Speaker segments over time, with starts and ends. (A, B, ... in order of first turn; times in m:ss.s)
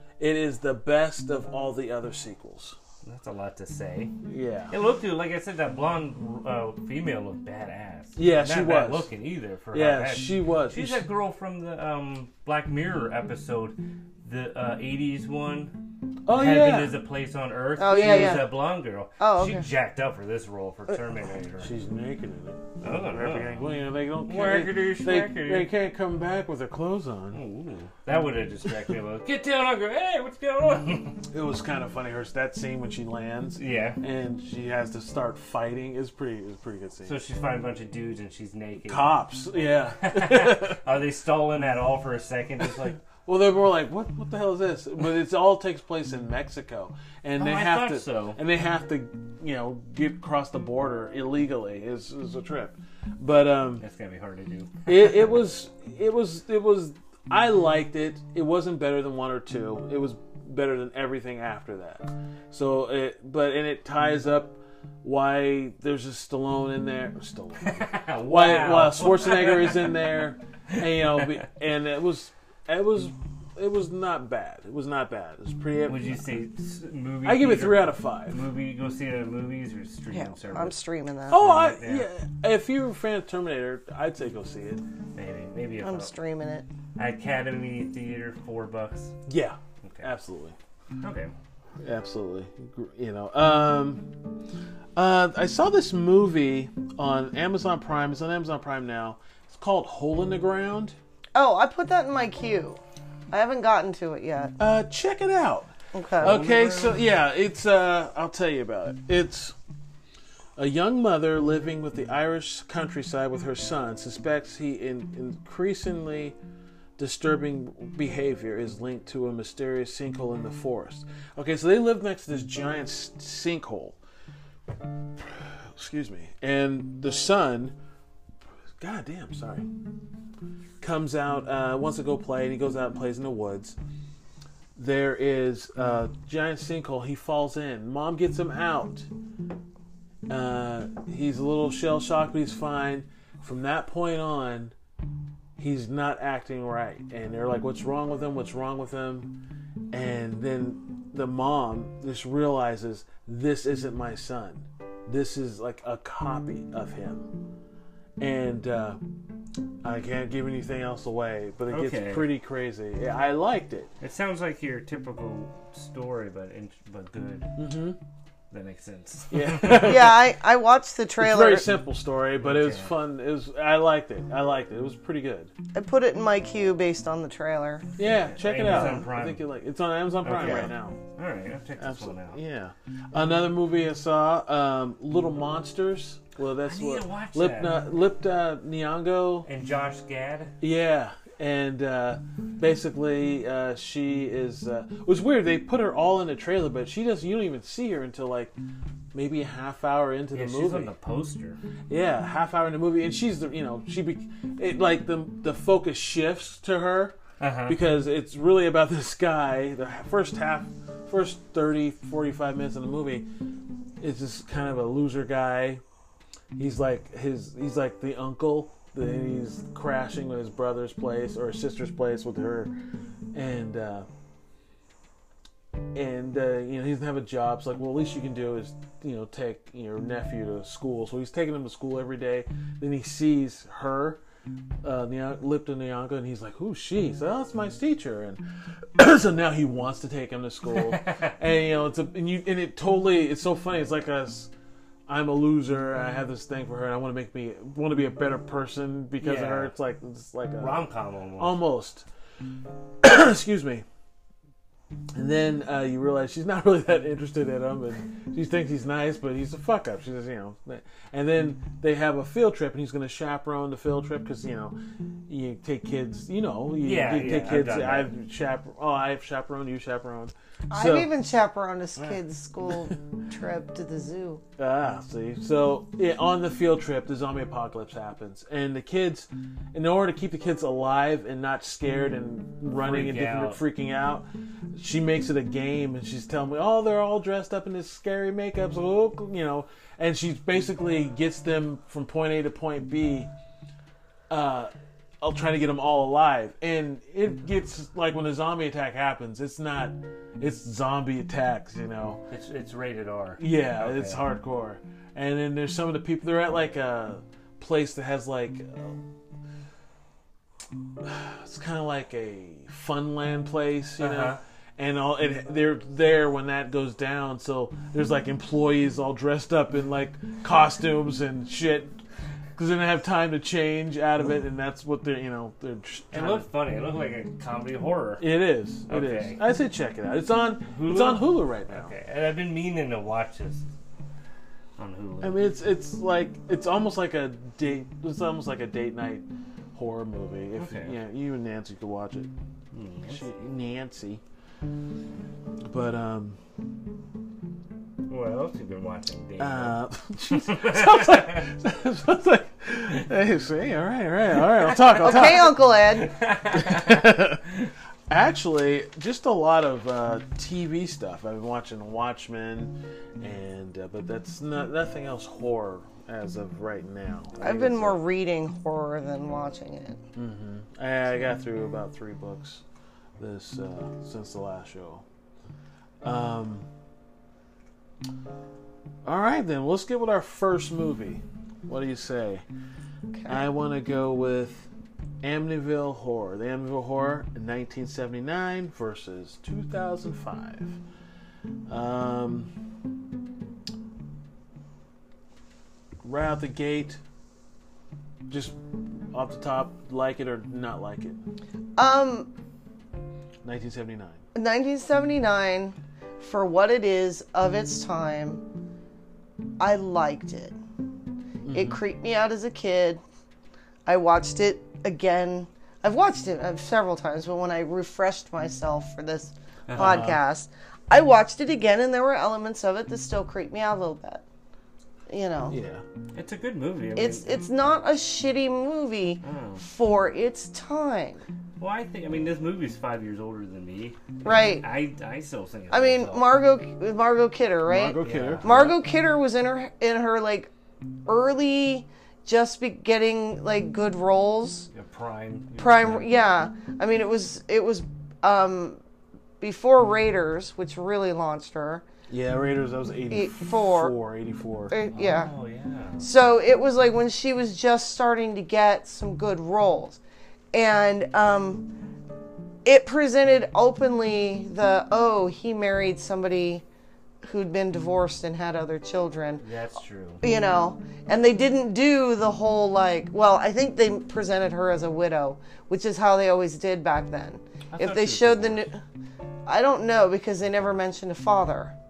0:00.2-0:02.8 A
0:03.0-0:04.1 B
0:04.2-0:04.7 A
0:04.7-0:21.7 B
0:08.2-0:09.1 A
0:09.7-0:11.0 A
0:16.2-0:17.0 A
0:17.8-0:18.5 C
0:17.9-0:18.4 A
0:19.2-0:19.6 C
0:21.6-0:27.4 A
0:22.8-0:23.7 B
0:24.2-0:25.7 B
0:27.3-0:31.2 B
0:31.3-0:37.2 A
0:33.6-0:34.0 B
0:37.0-0:39.1 B
0:38.8-0:40.8 A
0:40.0-0:43.0 B
0:42.8-0:53.8 A
0:47.4-0:48.4 B
0:53.8-0:55.3 B
0:54.9-1:16.2 A
1:07.6-1:10.1 B
1:10.7-1:11.2 B
1:15.9-1:20.8 B
1:17.2-1:18.4 A
1:20.1-1:21.4 C
1:21.3-1:24.8 A
1:21.3-1:22.1 B
1:25.1-1:26.1 B
1:25.8-1:26.7 C
1:27.0-1:29.1 B
1:29.3-1:30.6 A
1:29.8-1:30.1 B
1:31.0-1:31.3 B
1:31.8-1:34.1 A
1:35.0-1:41.0 A
1:41.4-1:42.8 C
1:43.3-1:44.5 C
1:44.6-1:49.5 A
1:45.9-1:46.4 C
1:46.2-1:47.0 B
1:50.6-1:56.4 A
1:57.0-2:04.0 A
2:05.2-2:07.7 A
2:08.8-2:09.7 A
2:10.8-2:13.8 A
2:14.8-2:19.1 A
2:20.3-2:24.7 A
2:25.6-2:29.4 A
2:29.9-2:37.3 A
2:38.2-2:39.0 A
2:39.8-2:43.9 A
2:41.7-2:42.3 B
2:44.0-2:47.6 B
2:47.6-2:48.0 A
2:48.5-2:50.1 B
2:49.3-2:50.2 A
2:49.8-2:51.7 C
2:51.2-2:55.5 A
2:52.4-2:52.9 B
2:55.7-2:57.9 C
2:58.0-3:01.0 A
2:58.0-2:59.4 B
3:00.2-3:02.4 B
3:00.4-3:00.7 C
3:01.8-3:09.5 A
3:06.6-3:07.8 B
3:09.4-3:10.5 B
3:10.6-3:18.5 A
3:19.1-3:20.9 A
3:20.3-3:21.6 B
3:21.9-3:27.2 A
3:27.4-3:27.8 B
3:27.7-3:33.3 A
3:34.0-3:35.8 A
3:36.5-3:42.7 A
3:43.3-3:44.1 A
3:45.9-3:54.2 A
3:54.8-3:58.4 A
3:59.0-4:04.5 A
4:00.9-4:01.3 B
4:05.1-4:10.9 A
4:09.2-4:09.7 B
4:10.6-4:11.6 B
4:11.4-4:12.0 A
4:13.0-4:13.8 A
4:15.1-4:31.1 A
4:26.8-4:28.1 B
4:30.7-4:34.4 C
4:34.6-4:53.3 A
4:42.7-4:43.6 B
4:54.3-5:02.2 A
5:02.3-5:04.2 B
5:03.4-5:09.0 A
5:11.0-5:22.0 A
5:14.0-5:14.4 B
5:22.6-5:26.4 A
5:26.1-5:28.2 B
5:28.2-5:31.9 A
5:28.9-5:29.4 B
5:30.7-5:33.6 B
5:34.8-5:35.4 B
5:35.2-5:42.3 A
5:40.6-5:41.0 B
5:42.7-5:43.4 B
5:43.1-5:44.2 A
5:45.7-5:46.4 A
5:48.1-5:51.4 B
5:49.4-5:55.6 A
5:54.9-5:55.4 B
5:55.0-5:56.1 C
5:55.9-5:57.2 B
5:56.5-5:57.4 A
5:58.1-6:08.0 A
6:07.4-6:10.0 C
6:10.2-6:12.6 A
6:13.2-6:15.0 A
6:16.0-6:16.7 A
6:19.0-6:22.4 A
6:23.1-6:23.4 C
6:23.3-6:24.7 A
6:25.2-6:30.8 A
6:31.7-6:32.5 A
6:36.0-6:37.0 A
6:38.3-6:41.2 A
6:41.8-6:42.3 C
6:43.4-6:44.2 A
6:44.3-6:48.4 C
6:49.6-6:50.6 C
6:51.4-6:51.8 A
6:51.5-6:53.0 C
6:53.9-7:04.2 C
6:59.7-7:00.1 B
6:59.8-7:00.2 A
7:05.1-7:05.6 C
7:05.5-7:05.8 A
7:06.1-7:07.4 B
7:07.0-7:11.2 C
7:09.2-7:09.6 B
7:11.6-7:16.2 B
7:14.2-7:14.6 C
7:15.7-7:20.5 C
7:17.7-7:18.5 A
7:18.0-7:18.8 B
7:21.0-7:24.7 C
7:24.7-7:26.1 B
7:25.6-7:28.8 C
7:29.4-7:31.9 C
7:32.1-7:34.7 A
7:33.1-7:33.9 C
7:34.7-7:35.3 C
7:34.9-7:36.1 B
7:36.0-7:40.0 C
7:40.5-7:41.7 C
7:42.6-7:46.6 C
7:47.2-7:49.4 C
7:49.4-7:50.2 B
7:50.2-7:58.8 C
7:57.7-7:58.7 B
7:59.4-8:01.7 C